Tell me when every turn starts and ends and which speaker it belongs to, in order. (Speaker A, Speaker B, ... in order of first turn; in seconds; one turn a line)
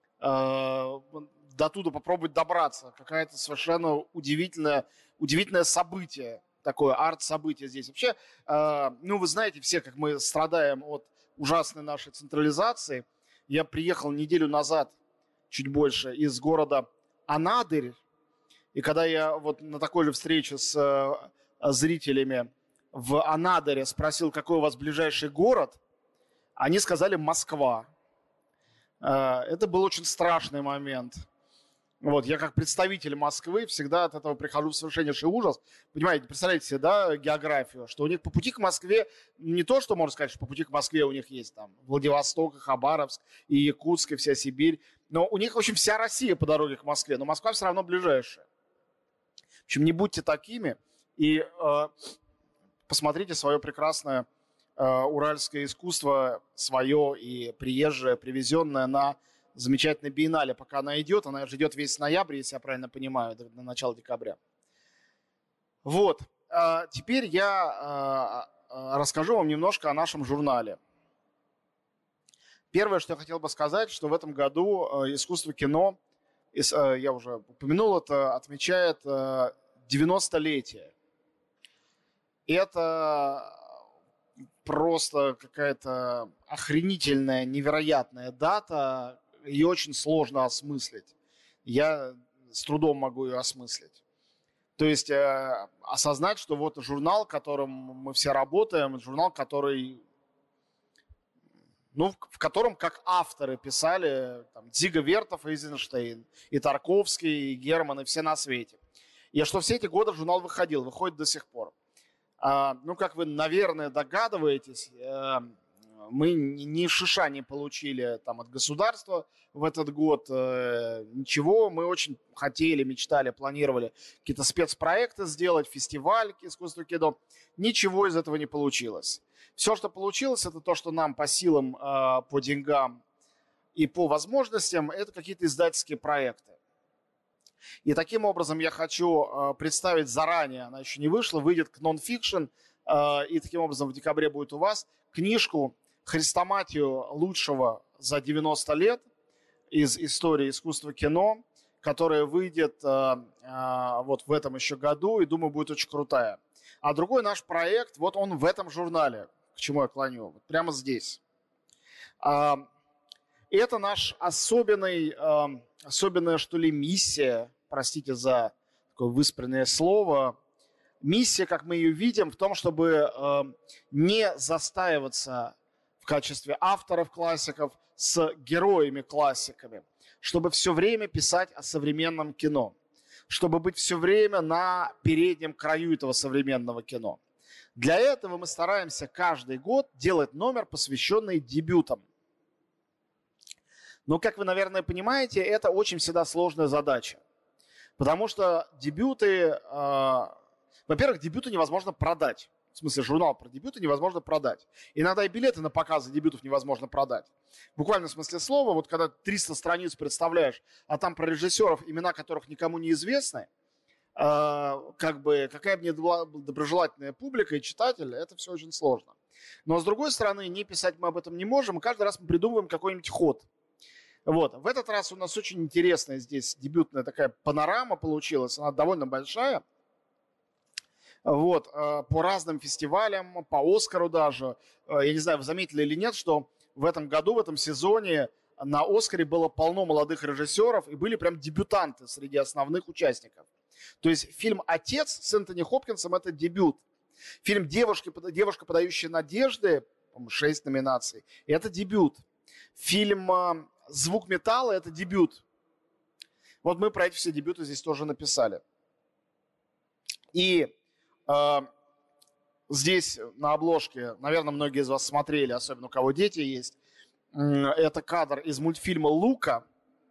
Speaker A: 0.2-14.9
Speaker A: 15.5-18.0
Speaker A: 18.7-25.8
Speaker A: 26.6-27.9
Speaker A: 29.0-31.2
Speaker A: 32.0-48.5
Speaker A: 49.7-51.9
Speaker A: 52.9-54.3
Speaker A: 54.8-64.4
Speaker A: 65.8-70.8
Speaker A: 72.7-76.0
Speaker A: 76.5-80.9
Speaker A: 82.5-83.5
Speaker A: 84.6-91.1
Speaker A: 91.7-94.0
Speaker A: 94.8-100.0
Speaker A: 101.9-108.8
Speaker A: 109.3-111.7
Speaker A: 112.4-115.5
Speaker A: 116.1-133.0
Speaker A: 133.8-136.6
Speaker A: 137.8-149.1
Speaker A: 149.7-161.2
Speaker A: 162.2-162.7
Speaker A: 163.5-170.4
Speaker A: 171.0-182.7
Speaker A: 183.3-187.2
Speaker A: 187.8-192.0
Speaker A: 194.1-197.2
Speaker A: 198.0-200.3
Speaker A: 200.9-213.5
Speaker A: 214.2-219.1
Speaker A: 219.7-223.5
Speaker A: 224.3-229.6
Speaker A: 231.2-243.4
Speaker A: 244.0-246.8
Speaker A: 247.4-252.2
Speaker A: 252.8-255.4
Speaker A: 256.6-258.6
Speaker A: 260.3-260.7
Speaker A: 261.3-261.7
Speaker A: 262.7-266.8
Speaker A: 267.3-269.6